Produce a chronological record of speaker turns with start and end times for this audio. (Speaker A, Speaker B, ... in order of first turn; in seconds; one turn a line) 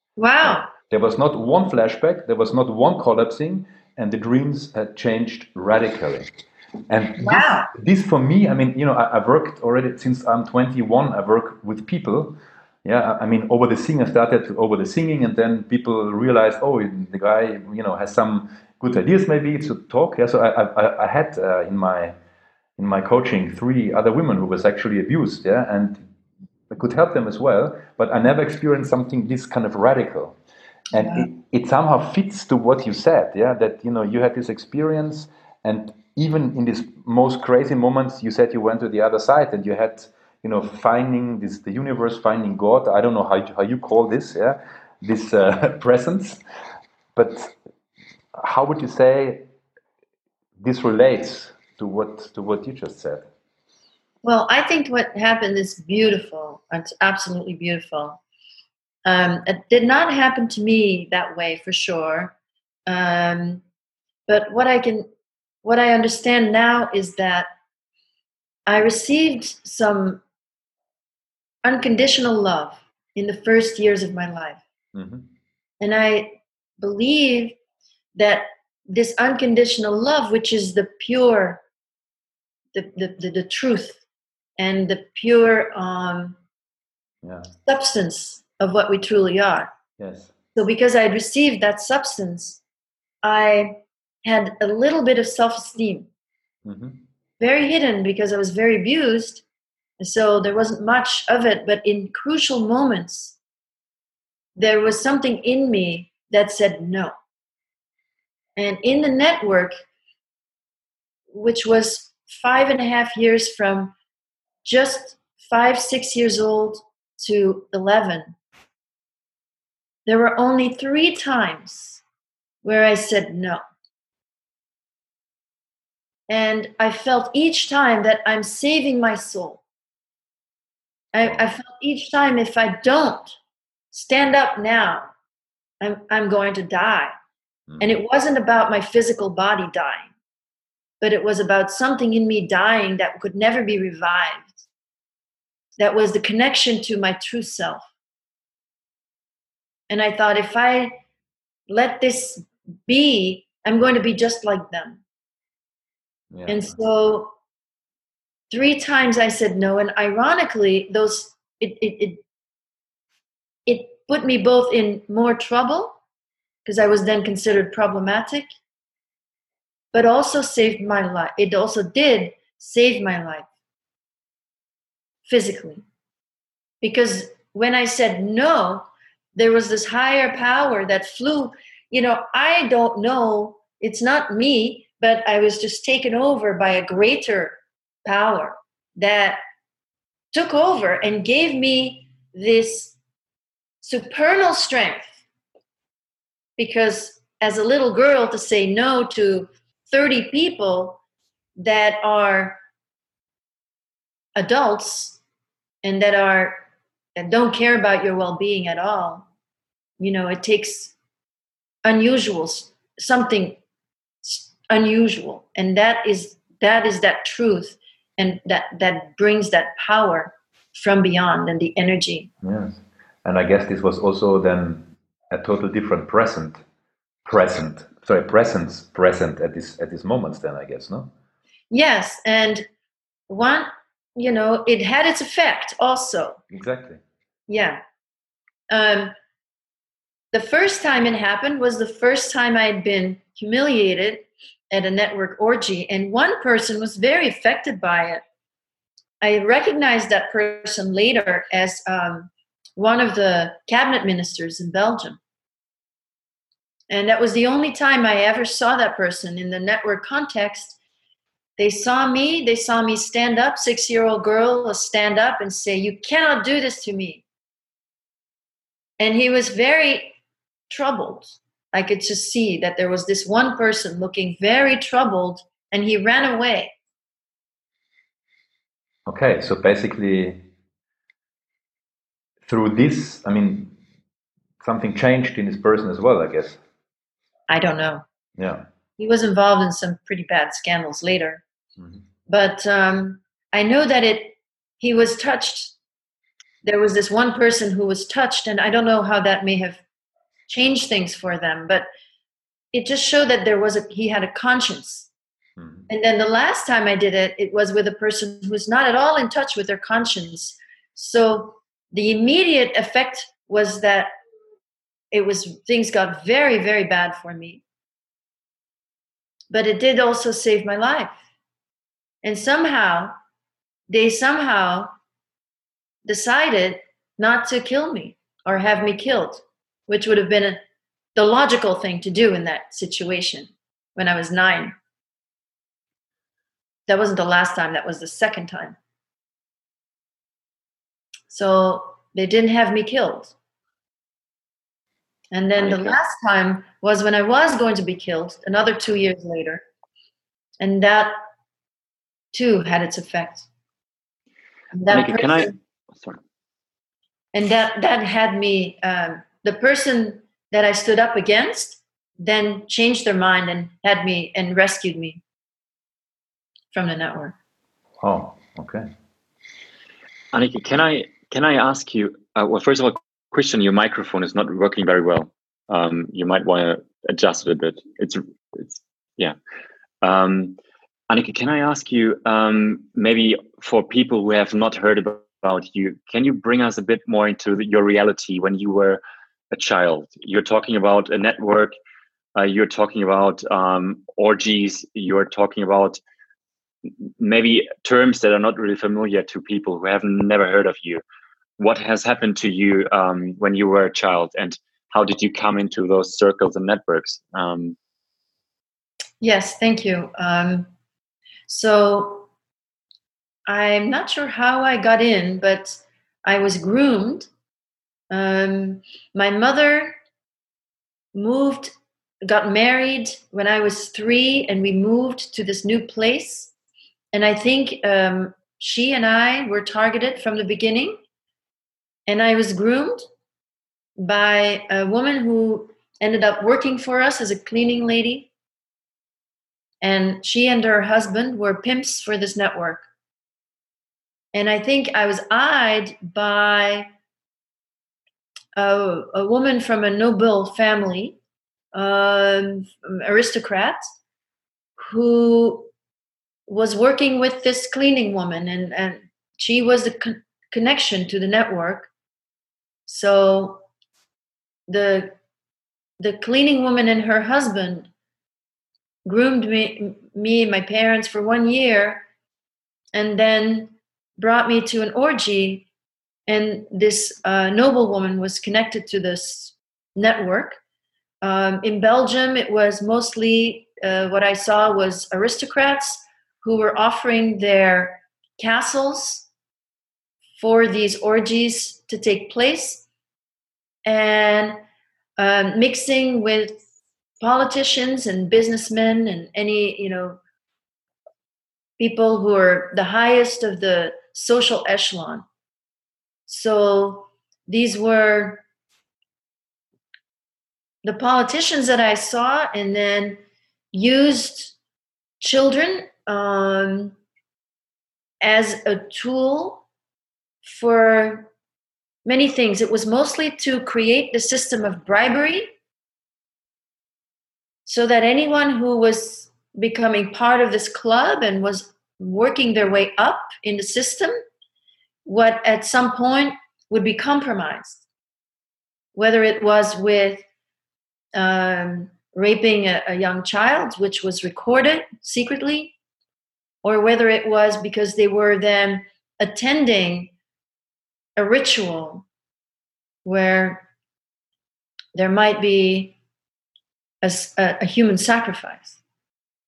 Speaker A: 0.2-0.7
Speaker B: 0.4-6.3
Speaker B: 6.9-22.1
Speaker A: 7.2-7.7
Speaker B: 22.8-26.0
Speaker B: 26.7-30.4
Speaker B: 30.9-46.4
Speaker B: 47.1-47.5
Speaker B: 48.4-49.4
Speaker B: 50.6-53.3
Speaker A: 54.2-58.2
Speaker A: 59.0-62.3
Speaker A: 62.9-63.6
Speaker A: 64.3-65.1
Speaker A: 65.6-67.5
Speaker A: 68.7-70.2
Speaker A: 71.6-74.6
Speaker B: 74.9-75.3
Speaker A: 75.8-77.6
Speaker A: 78.2-81.6
Speaker A: 82.7-84.0
Speaker A: 84.6-86.4
Speaker B: 87.2-87.5
Speaker A: 87.6-89.7
Speaker B: 90.0-90.3
Speaker A: 90.5-92.6
Speaker A: 93.2-96.1
Speaker B: 96.6-97.0
Speaker A: 97.4-99.4
Speaker A: 100.0-103.4
Speaker A: 104.5-107.1
Speaker A: 108.5-109.7
Speaker A: 111.3-113.9
Speaker A: 114.6-118.3
Speaker A: 120.0-122.0
Speaker A: 122.6-123.6
Speaker A: 126.3-129.6
Speaker A: 131.1-133.4
Speaker A: 133.9-135.1
Speaker A: 135.8-137.1
Speaker B: 137.7-137.9
Speaker A: 137.8-140.1
Speaker A: 141.0-144.6
Speaker A: 145.8-147.8
Speaker A: 149.9-150.9
Speaker A: 151.7-155.0
Speaker B: 156.3-156.8
Speaker A: 156.5-157.3
Speaker A: 158.5-162.2
Speaker A: 163.7-166.0
Speaker A: 166.6-168.5
Speaker A: 169.9-173.4
Speaker A: 175.2-175.8
Speaker A: 176.8-189.4
Speaker A: 190.3-192.9
Speaker A: 193.8-195.2
Speaker A: 196.6-201.0
Speaker A: 201.6-202.6
Speaker A: 204.3-205.2
Speaker A: 205.8-206.6
Speaker A: 207.2-209.3
Speaker A: 210.0-210.9
Speaker A: 211.8-213.6
Speaker A: 214.2-222.3
Speaker B: 222.4-226.6
Speaker B: 227.2-231.1
Speaker A: 231.7-232.7
Speaker A: 233.3-236.4
Speaker B: 236.5-237.0
Speaker A: 237.5-237.8
Speaker A: 238.7-239.1
Speaker A: 240.3-248.2
Speaker A: 249.2-255.2
Speaker A: 256.9-260.8
Speaker A: 261.6-267.2
Speaker A: 269.0-270.1
Speaker A: 270.7-276.7
Speaker B: 279.1-280.4
Speaker B: 282.4-283.7
Speaker B: 284.6-286.6
Speaker A: 287.5-288.0
Speaker B: 288.4-288.6
Speaker A: 289.0-291.4
Speaker A: 292.3-295.7
Speaker A: 296.6-299.8
Speaker A: 300.5-301.9
Speaker A: 302.7-305.1
Speaker B: 305.6-305.9
Speaker A: 305.9-314.1
Speaker A: 315.1-317.6
Speaker A: 319.5-321.2
Speaker A: 322.2-323.1
Speaker A: 323.9-324.9
Speaker A: 326.0-330.6
Speaker A: 331.1-334.7
Speaker A: 336.9-338.8
Speaker A: 341.3-343.3
Speaker A: 345.3-349.6
Speaker C: 345.6-346.0
Speaker A: 350.6-351.2
Speaker A: 352.3-353.5
Speaker A: 354.7-355.5
Speaker C: 354.9-356.2
Speaker A: 357.3-365.2
Speaker A: 366.7-367.4
Speaker B: 368.0-368.9
Speaker C: 370.3-379.3
Speaker C: 380.0-380.6
Speaker C: 381.1-389.0
Speaker C: 389.5-391.7
Speaker C: 392.3-396.0
Speaker C: 397.2-401.0
Speaker C: 401.6-407.8
Speaker A: 409.2-410.7
Speaker A: 411.5-412.3
Speaker A: 413.5-417.3
Speaker A: 418.1-419.9
Speaker A: 421.1-421.7
Speaker A: 422.2-426.5
Speaker A: 427.1-431.0
Speaker A: 432.1-433.0
Speaker A: 434.0-438.3
Speaker A: 439.8-442.8
Speaker A: 444.3-446.9
Speaker A: 448.5-451.2
Speaker A: 451.7-453.8
Speaker A: 454.8-455.7
Speaker A: 456.5-461.9
Speaker A: 462.9-463.6
Speaker A: 464.7-465.1
Speaker A: 466.0-467.9
Speaker A: 469.0-472.0
Speaker A: 472.9-475.7
Speaker A: 476.3-480.6
Speaker A: 481.2-489.3
Speaker A: 490.4-492.8
Speaker A: 493.8-494.6
Speaker A: 495.2-496.6
Speaker A: 497.2-500.2
Speaker A: 501.8-505.2
Speaker A: 506.3-508.4
Speaker A: 510.8-513.2
Speaker A: 513.7-514.5
Speaker A: 515.2-517.0
Speaker A: 518.2-519.6
Speaker A: 520.4-521.3
Speaker A: 522.0-525.5
Speaker A: 527.6-534.1
Speaker A: 535.0-537.8
Speaker A: 538.9-540.2
Speaker A: 541.1-545.7
Speaker A: 546.6-550.1
Speaker A: 551.1-552.0
Speaker A: 553.0-553.6
Speaker A: 554.9-555.9
Speaker A: 557.0-558.8